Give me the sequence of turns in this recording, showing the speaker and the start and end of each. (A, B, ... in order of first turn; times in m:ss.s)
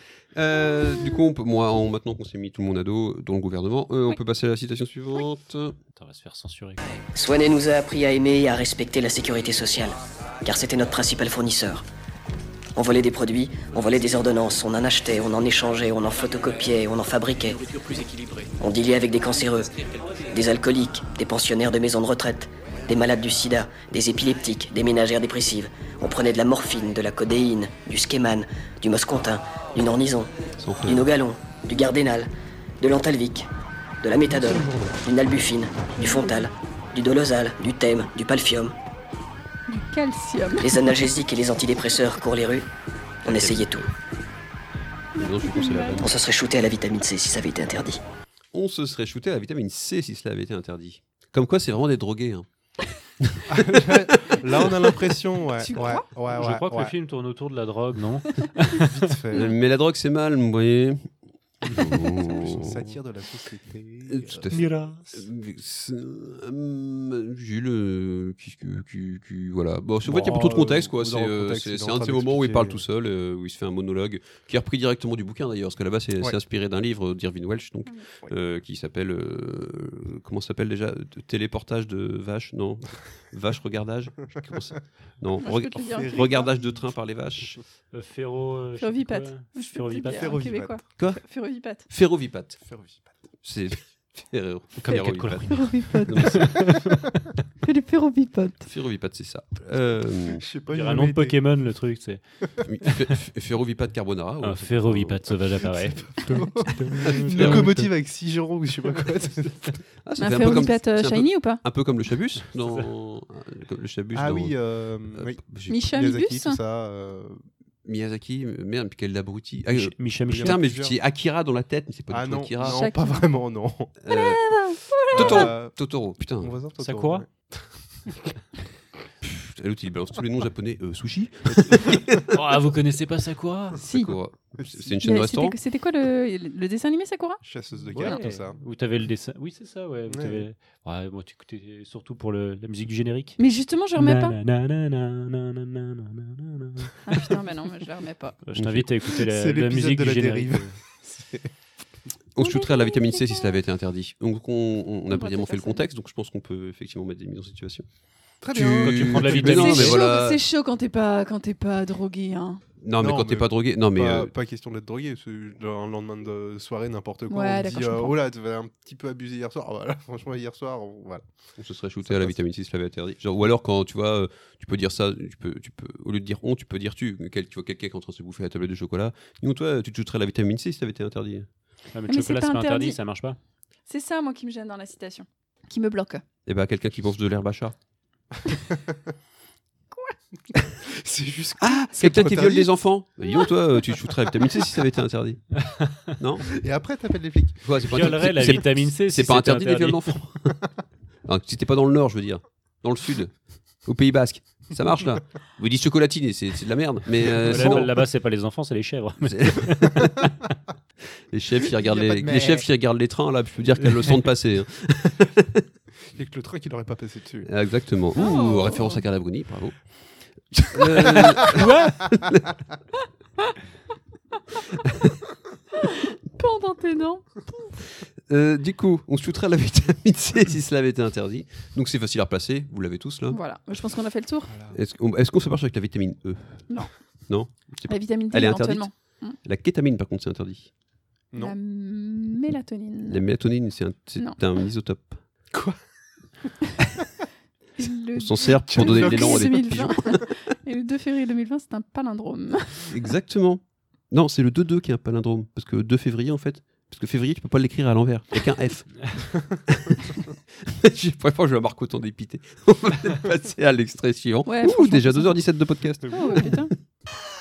0:00.3-0:05.8 A
0:06.0-0:07.0 B
0:07.1-0:11.8 C
0:12.7-0:17.6 C
0:18.6-0:19.7 C
0:20.3-0:30.3 C
0:30.6-0:31.0 A
0:30.8-0:33.5 C
0:34.0-0:38.7 C
0:34.4-0:34.9 D
0:36.0-0:36.4 E
0:39.7-0:40.7 E
0:40.6-0:42.7 C
0:43.2-0:43.8 C
0:43.2-0:43.9 A
0:45.2-0:46.1 E
0:45.2-0:46.1 A
0:46.0-0:48.0 C
0:48.5-0:52.5 A
0:53.2-0:53.6 A
0:53.5-0:56.9 D
0:55.6-0:56.0 E
0:56.3-0:58.9 B
0:58.7-0:59.5 D
0:59.3-1:01.1 A
1:01.6-1:02.9 A
1:01.7-1:04.5 D
1:04.1-1:27.6 A
1:04.5-1:05.2 B
1:10.0-1:12.8 D
1:25.4-1:26.5 E
1:25.9-1:26.5 D
1:27.9-1:30.4 B
1:28.8-1:31.9 E
1:30.0-1:30.8 D
1:31.0-1:31.2 A
1:31.8-1:32.6 A
1:32.6-1:33.3 D
1:33.4-1:36.8 A
1:34.8-1:37.0 B
1:35.5-1:36.7 E
1:37.6-1:38.7 E
1:38.6-1:40.4 A
1:40.3-1:41.4 D
1:40.7-1:42.2 B
1:42.6-1:45.3 A
1:42.8-1:43.1 B
1:44.4-1:47.9 B
1:46.0-1:49.8 D
1:47.0-1:47.8 A
1:50.0-1:54.6 A
1:50.2-1:51.6 E
1:52.5-1:52.9 B
1:54.1-1:57.4 D
1:55.1-1:55.8 A
1:55.7-1:56.6 E
1:57.8-2:02.9 A
1:59.7-2:00.6 B
2:00.3-2:01.0 D
2:02.1-2:03.9 D
2:02.6-2:03.2 E
2:04.0-2:04.4 A
2:04.1-2:05.5 E
2:05.1-2:06.6 A
2:05.1-2:05.8 D
2:06.4-2:08.3 D
2:06.8-2:07.2 B
2:09.2-2:12.3 A
2:11.8-2:12.2 D
2:12.3-2:13.8 B
2:13.8-2:14.1 E
2:13.8-2:15.6 A
2:14.6-2:14.9 D
2:15.0-2:17.4 E
2:17.4-2:18.6 D
2:17.9-2:23.4 B
2:20.1-2:20.4 D
2:23.4-2:24.4 E
2:23.9-2:26.9 B
2:27.0-2:28.4 E
2:28.4-2:30.8 B
2:28.6-2:28.9 A
2:29.2-2:31.5 D
2:32.3-2:37.8 A
2:32.4-2:33.6 E
2:35.1-2:35.8 E
2:38.4-2:39.7 D
2:38.4-2:40.4 A
2:38.8-2:40.0 B
2:39.4-2:42.6 E
2:42.8-2:44.3 A
2:43.0-2:51.3 D
2:47.3-2:48.2 E
2:51.6-3:01.5 A
2:52.0-2:52.4 D
3:01.9-3:03.4 B
3:02.1-3:03.0 E
3:03.9-3:06.2 E
3:06.4-3:07.7 A
3:08.5-3:08.9 D
3:10.8-3:12.7 D
3:11.6-3:15.6 A
3:16.1-3:16.5 A
3:16.6-3:18.0 D
3:17.6-3:20.6 A
3:17.9-3:20.0 B
3:21.2-3:28.0 A
3:27.4-3:27.9 D
3:27.4-3:30.3 B
3:29.2-3:30.2 A
3:31.3-3:35.6 A
3:31.8-3:32.6 D
3:36.1-3:37.5 D
3:37.4-3:39.9 A
3:38.1-3:39.0 E
3:40.5-3:42.4 A
3:41.1-3:41.9 B
3:45.8-3:47.8 E
3:48.3-3:53.4 A
3:53.3-3:54.5 E
3:54.5-3:54.8 D
3:54.7-3:56.7 A
3:57.3-4:00.7 A
3:57.9-3:59.4 E
4:01.4-4:03.2 E
4:03.1-4:05.2 A
4:05.5-4:05.8 D
4:07.8-4:12.8 E
4:08.1-4:10.2 A
4:08.7-4:09.9 D
4:12.8-4:19.1 A
4:19.7-4:20.0 A
4:20.6-4:26.6 A
4:24.4-4:25.4 E
4:26.0-4:26.5 D
4:26.1-4:26.7 E